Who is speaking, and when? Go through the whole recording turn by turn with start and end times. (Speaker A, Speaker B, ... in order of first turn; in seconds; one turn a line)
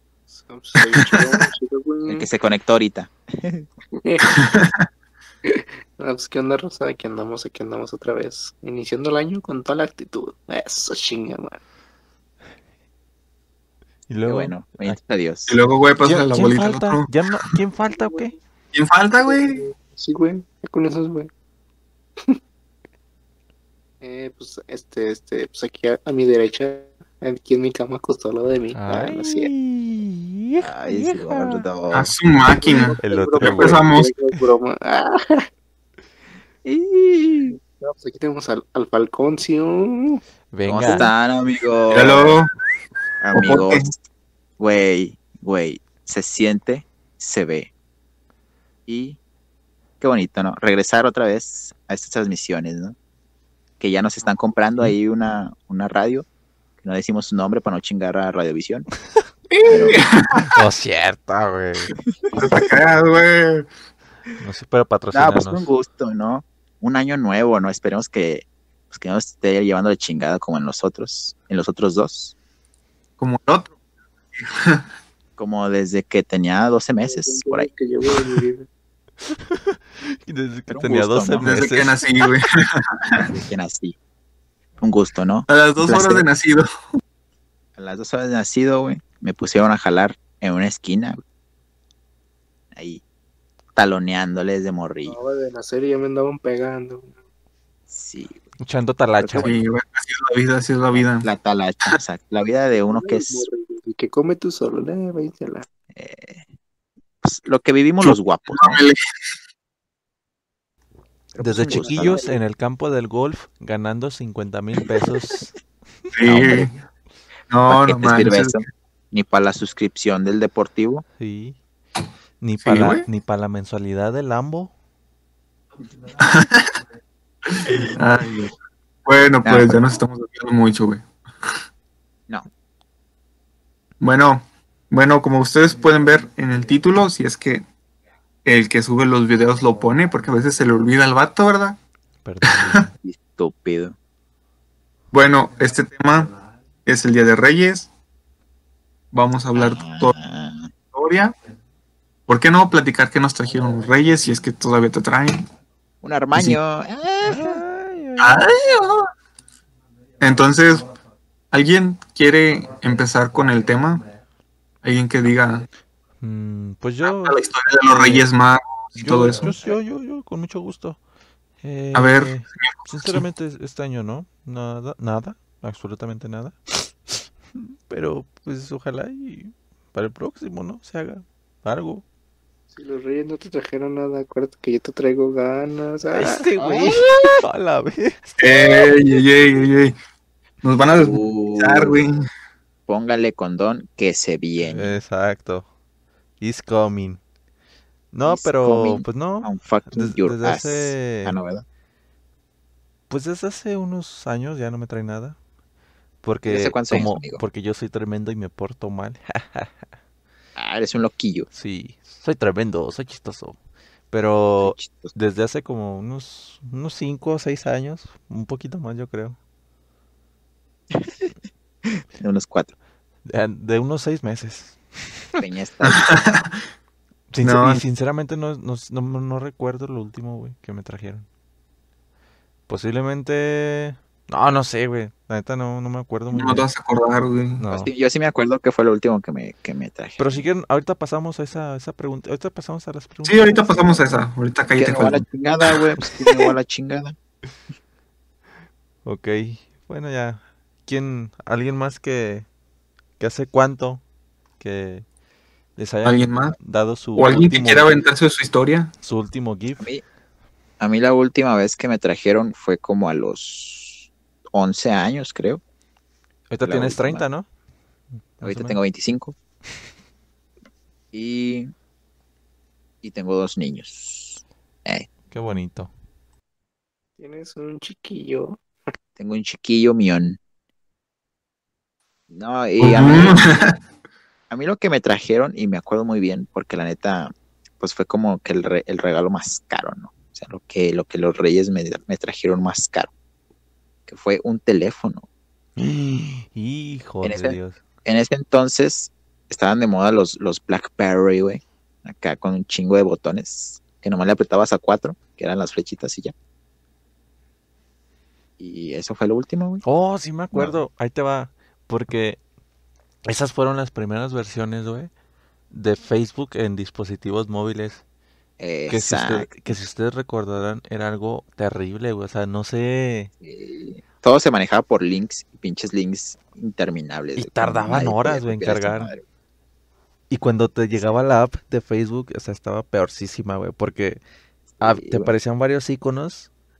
Speaker A: 0.3-2.3
Speaker B: 0.9-1.3
Speaker C: 2.1-3.7
Speaker A: 4.0-4.5
Speaker B: 4.5-4.8
Speaker A: 5.4-11.6
Speaker D: 14.1-15.0
Speaker C: 14.2-15.6
Speaker B: 15.5-17.1
Speaker D: 16.0-18.3
Speaker A: 17.8-18.4
Speaker B: 18.7-19.6
Speaker A: 19.2-21.3
Speaker A: 24.0-29.4
Speaker D: 28.7-31.6
Speaker C: 30.6-32.1
Speaker B: 31.9-34.1
Speaker A: 32.5-35.5
Speaker D: 33.0-33.9
Speaker C: 36.7-37.4
Speaker A: 37.6-40.2
Speaker D: 40.5-41.1
Speaker C: 40.6-42.4
Speaker B: 41.9-42.5
Speaker C: 43.2-44.0
Speaker B: 43.3-43.9
Speaker C: 44.6-47.7
Speaker C: 48.9-49.2
Speaker C: 50.0-53.0
Speaker C: 53.8-56.3
Speaker C: 56.8-58.9
Speaker B: 59.5-60.5
Speaker C: 59.6-60.0
Speaker D: 60.5-62.0
Speaker B: 62.3-63.7
Speaker D: 64.4-65.7
Speaker C: 65.1-72.3
Speaker B: 73.2-73.7
Speaker B: 74.4-74.8
Speaker C: 75.4-77.7
Speaker A: 77.0-78.7
Speaker D: 79.5-82.0
Speaker C: 80.7-81.6
Speaker B: 81.4-83.3
Speaker C: 83.2-84.0
Speaker C: 84.8-86.3
Speaker B: 85.5-86.7
Speaker C: 87.8-91.2
Speaker C: 92.7-93.0
Speaker C: 93.7-95.2
Speaker A: 95.0-97.1
Speaker C: 97.9-98.5
Speaker D: 98.6-99.5
Speaker C: 99.2-99.5
Speaker B: 99.3-101.3
Speaker C: 100.9-103.5
Speaker A: 102.8-105.7
Speaker C: 105.9-106.4
Speaker C: 107.2-108.8
Speaker B: 108.0-109.0
Speaker A: 111.3-112.4
Speaker C: 111.4-112.2
Speaker D: 111.4-115.5
Speaker B: 116.1-116.7
Speaker C: 116.2-116.7
Speaker B: 117.5-118.6
Speaker C: 117.7-121.0
Speaker D: 121.2-121.6
Speaker D: 122.4-124.7
Speaker B: 122.6-123.0
Speaker B: 126.2-126.7
Speaker B: 127.5-128.5
Speaker B: 129.1-131.0
Speaker C: 129.4-129.8
Speaker B: 134.0-137.6
Speaker B: 138.4-141.8
Speaker D: 142.2-142.9
Speaker C: 143.0-143.9
Speaker B: 145.1-146.3
Speaker B: 146.8-147.9
Speaker B: 149.1-150.1
Speaker C: 149.5-150.7
Speaker B: 150.9-151.3
Speaker B: 152.3-155.4
Speaker C: 156.0-157.6
Speaker D: 157.2-158.4
Speaker B: 158.2-159.1
Speaker B: 160.2-160.9
Speaker B: 161.5-164.0
Speaker B: 164.8-165.7
Speaker D: 166.2-168.2
Speaker B: 167.0-169.6
Speaker D: 168.9-171.0
Speaker C: 169.4-169.8
Speaker D: 171.6-176.6
Speaker B: 171.9-173.2
Speaker D: 177.6-182.0
Speaker A: 182.7-186.4
Speaker D: 186.1-188.4
Speaker C: 186.6-187.3
Speaker B: 188.4-189.9
Speaker B: 190.6-192.2
Speaker C: 190.8-192.0
Speaker C: 192.9-195.0
Speaker D: 194.6-195.7
Speaker D: 196.4-197.2
Speaker D: 198.1-201.3
Speaker C: 198.2-201.6
Speaker D: 203.1-205.4
Speaker D: 206.2-209.7
Speaker C: 206.4-207.4
Speaker C: 210.6-211.5
Speaker D: 211.5-213.6
Speaker D: 214.1-219.4
Speaker C: 214.6-215.1
Speaker C: 220.9-221.3
Speaker C: 221.8-222.7
Speaker D: 223.2-224.8
Speaker C: 225.4-226.2
Speaker B: 225.8-226.5
Speaker D: 227.3-231.2
Speaker B: 227.4-227.8
Speaker D: 232.7-236.7
Speaker B: 236.3-237.6
Speaker D: 237.6-237.9
Speaker C: 237.7-240.4
Speaker D: 240.2-244.1
Speaker B: 243.2-245.2
Speaker C: 244.8-247.2
Speaker D: 246.1-246.4
Speaker D: 249.0-252.4
Speaker D: 253.2-254.0
Speaker D: 254.6-255.0
Speaker D: 255.8-257.9
Speaker B: 256.0-256.6
Speaker B: 257.1-258.9
Speaker D: 259.0-259.9
Speaker C: 260.8-265.6
Speaker D: 266.5-267.5
Speaker C: 266.6-267.2
Speaker D: 268.4-268.8
Speaker C: 268.4-269.3
Speaker C: 271.1-271.7
Speaker C: 273.0-275.1
Speaker D: 275.3-275.9
Speaker A: 277.2-278.6
Speaker C: 279.2-280.4
Speaker C: 282.3-283.4
Speaker B: 282.8-283.7
Speaker C: 284.5-293.1
Speaker C: 294.1-295.2
Speaker D: 295.8-297.8
Speaker C: 297.2-306.3
Speaker C: 308.6-309.8
Speaker D: 309.8-312.4
Speaker C: 310.5-310.8
Speaker D: 313.2-315.1
Speaker D: 315.7-318.0
Speaker C: 318.6-319.9
Speaker D: 318.9-323.3
Speaker C: 323.4-329.2
Speaker D: 327.3-329.1
Speaker D: 330.3-334.2
Speaker C: 334.8-335.3
Speaker D: 334.8-336.5